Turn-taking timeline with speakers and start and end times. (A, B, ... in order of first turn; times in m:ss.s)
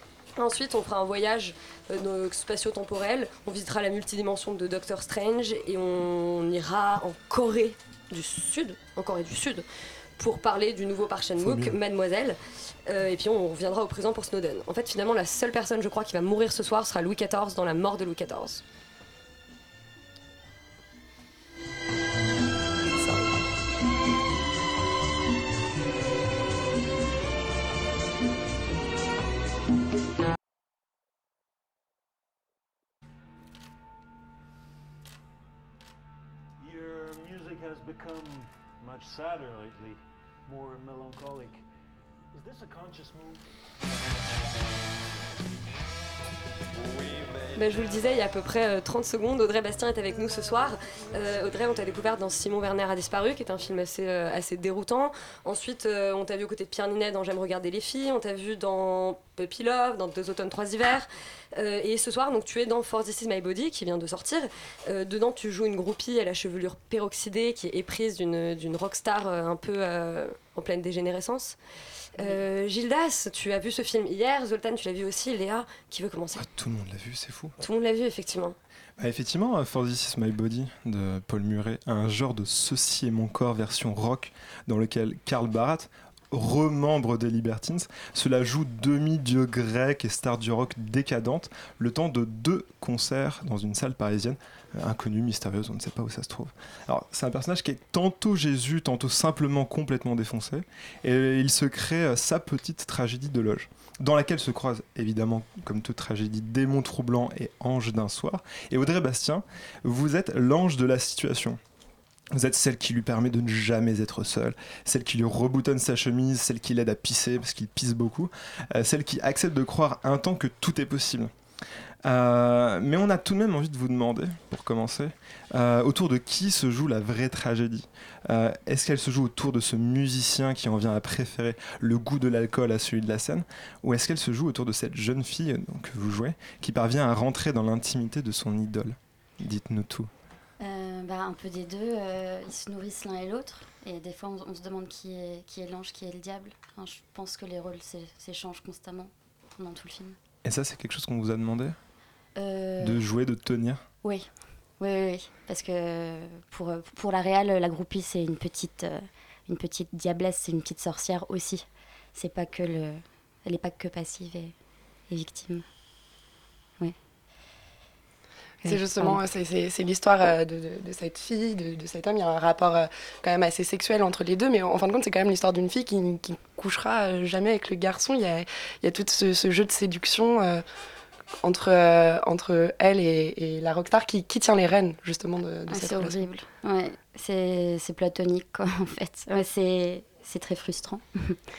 0:00.4-0:09.6 A
0:10.2-0:18.6 A
0:11.4-0:11.7 B
0:36.6-0:41.6 C
0:42.3-0:43.4 C
0:46.8-0:47.4 C
0:47.5-1:11.6 A
1:12.2-1:16.4 A
1:16.4-1:17.6 B
1:17.6-1:18.6 A
1:19.0-1:51.6 B
1:52.3-2:01.3 B
2:02.0-2:20.1 B
2:20.6-2:30.2 D
2:30.4-2:31.8 B
2:32.4-2:33.0 D
2:32.8-2:33.8 B
2:34.0-2:34.3 D
2:34.8-2:44.5 D
2:45.1-2:45.6 D
2:48.6-2:49.2 D
2:48.6-3:00.6 E
3:01.4-3:06.2 E
3:05.7-3:11.4 D